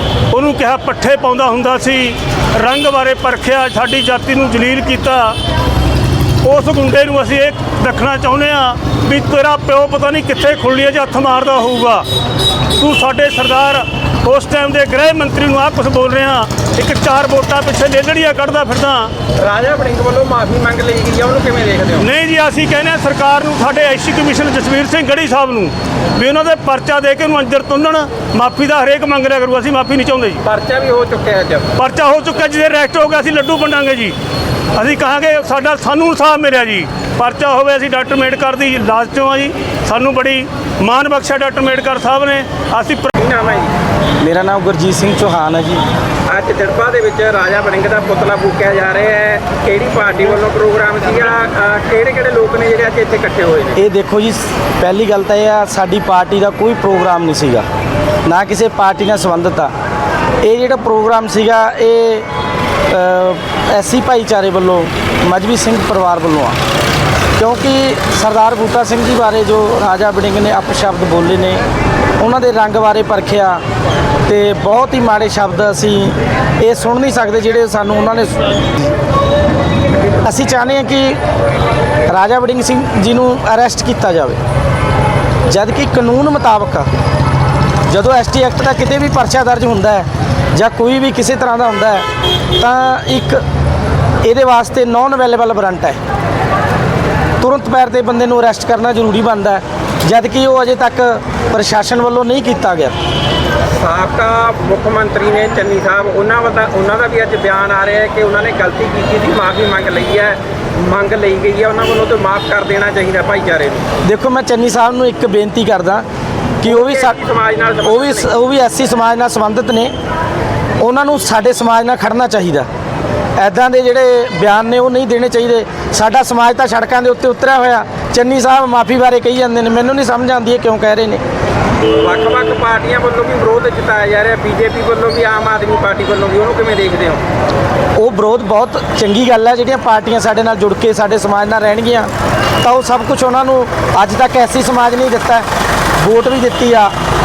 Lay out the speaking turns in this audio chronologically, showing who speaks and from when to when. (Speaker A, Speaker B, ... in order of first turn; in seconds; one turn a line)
Speaker A: 0.3-5.4
Speaker A: 6.4-12.1
Speaker A: 12.8-19.1
Speaker B: 19.4-22.1
Speaker A: 22.0-30.4
Speaker B: 30.4-31.7
Speaker A: 31.8-34.1
Speaker A: 34.8-43.1
Speaker B: 43.2-43.7
Speaker C: 44.2-45.8
Speaker B: 46.3-53.8
Speaker C: 53.8-57.6
Speaker C: 58.2-59.7
Speaker C: 60.4-62.2
Speaker C: 62.9-66.6
Speaker C: 67.4-71.6
Speaker C: 72.2-73.6
Speaker C: 74.2-78.9
Speaker C: 80.2-81.2
Speaker C: 82.1-84.4
Speaker C: 85.5-86.9
Speaker C: 87.9-93.4
Speaker C: 94.2-96.0
Speaker C: 97.4-103.0
Speaker B: 103.8-113.9
Speaker C: 114.0-116.0
Speaker C: 116.6-117.2
Speaker B: 116.7-118.3
Speaker C: 117.8-119.9
Speaker C: 120.8-122.7
Speaker C: 123.4-131.2
Speaker B: 132.0-137.2
Speaker C: 138.0-145.4
Speaker C: 146.0-146.9